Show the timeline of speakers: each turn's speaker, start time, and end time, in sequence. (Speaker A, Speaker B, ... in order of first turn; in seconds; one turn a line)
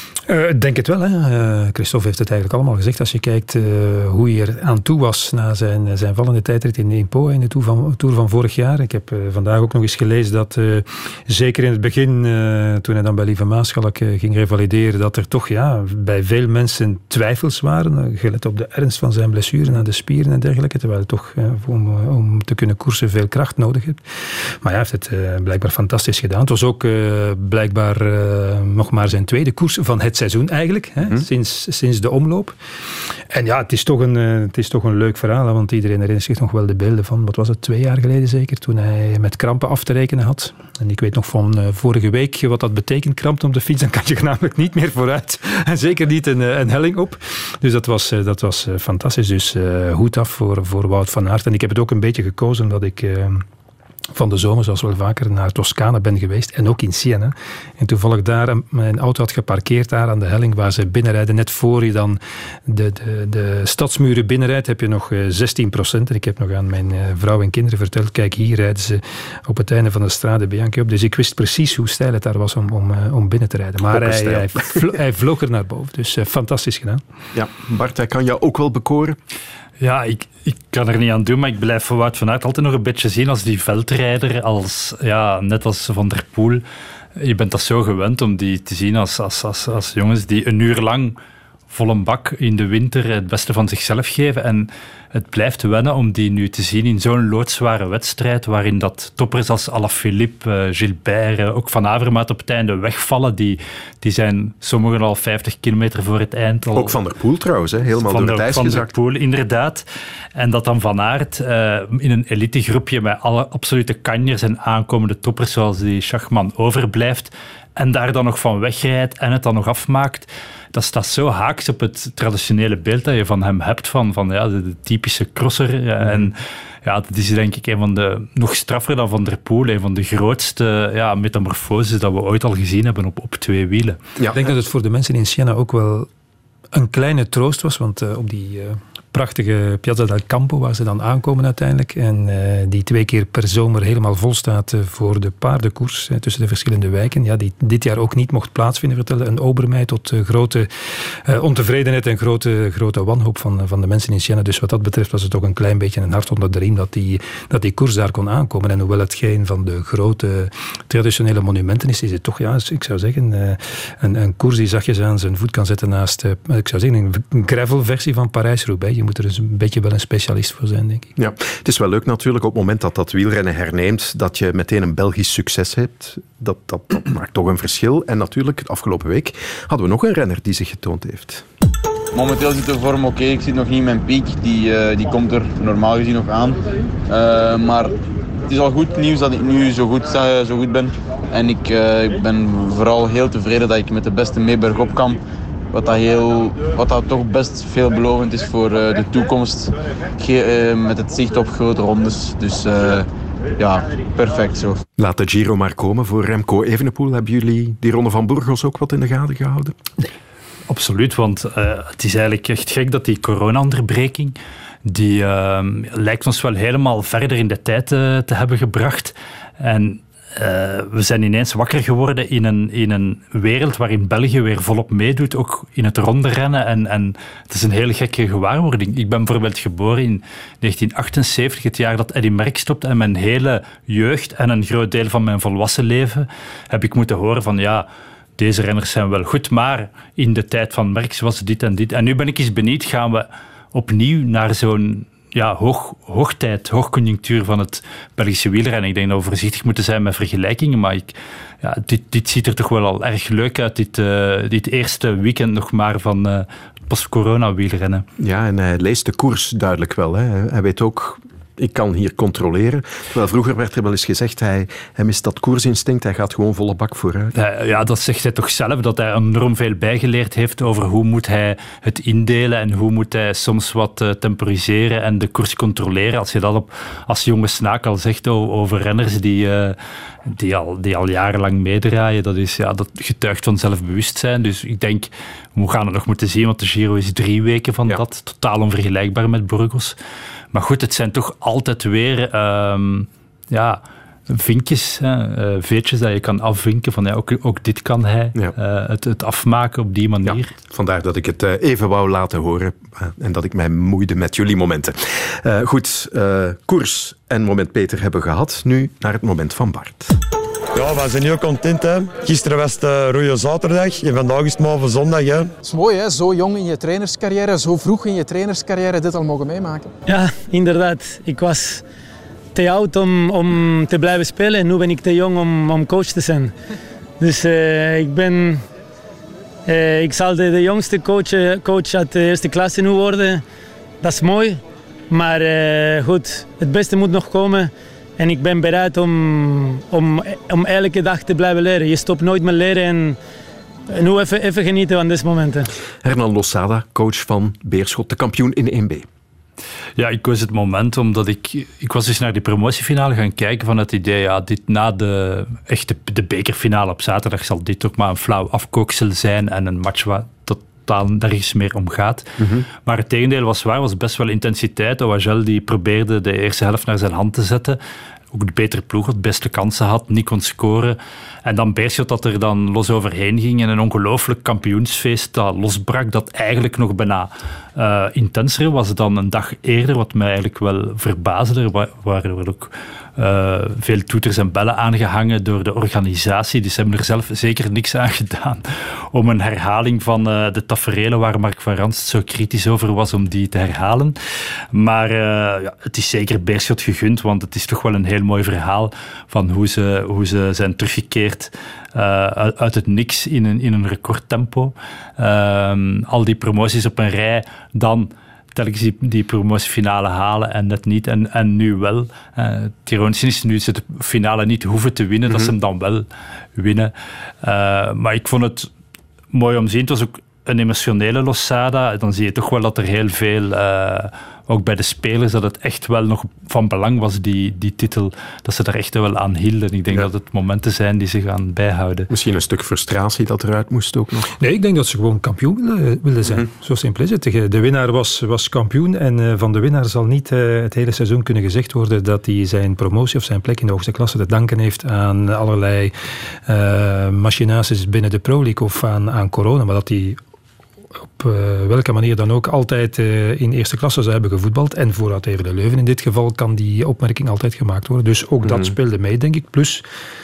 Speaker A: 0.3-32.5
Speaker A: 33.3-53.4
Speaker A: 54.1-77.0
Speaker B: 73.8-74.8
Speaker B: 77.3-79.2
Speaker C: 79.8-86.6
Speaker C: 87.2-91.2
Speaker C: 91.7-107.0
Speaker B: 106.7-108.9
Speaker C: 108.0-109.8
Speaker C: 110.3-134.0
Speaker A: 134.3-136.1
Speaker A: 136.7-171.1
Speaker B: 171.2-181.4
Speaker D: 182.1-195.2
Speaker D: 195.7-204.8
Speaker B: 205.0-209.7
Speaker C: 210.7-237.8
Speaker C: 238.4-258.1
Speaker B: 258.2-267.3
Speaker C: 267.3-289.9
Speaker C: 290.5-300.5
Speaker B: 300.2-310.2
Speaker E: 310.7-315.5
Speaker F: 315.6-319.9
Speaker G: 320.1-321.8
Speaker G: 322.5-326.5
Speaker G: 327.2-328.6
Speaker G: 329.6-333.4
Speaker G: 334.0-343.2
Speaker G: 343.9-345.7
Speaker B: 346.0-349.1
Speaker C: 349.9-367.8
Speaker B: 362.4-362.6
Speaker C: 368.3-394.1
Speaker C: 394.7-418.7
Speaker C: 419.3-432.1
Speaker B: 432.1-434.3
Speaker A: 434.4-445.9
Speaker A: 446.5-450.2
Speaker A: 451.2-459.8
Speaker B: 458.4-458.7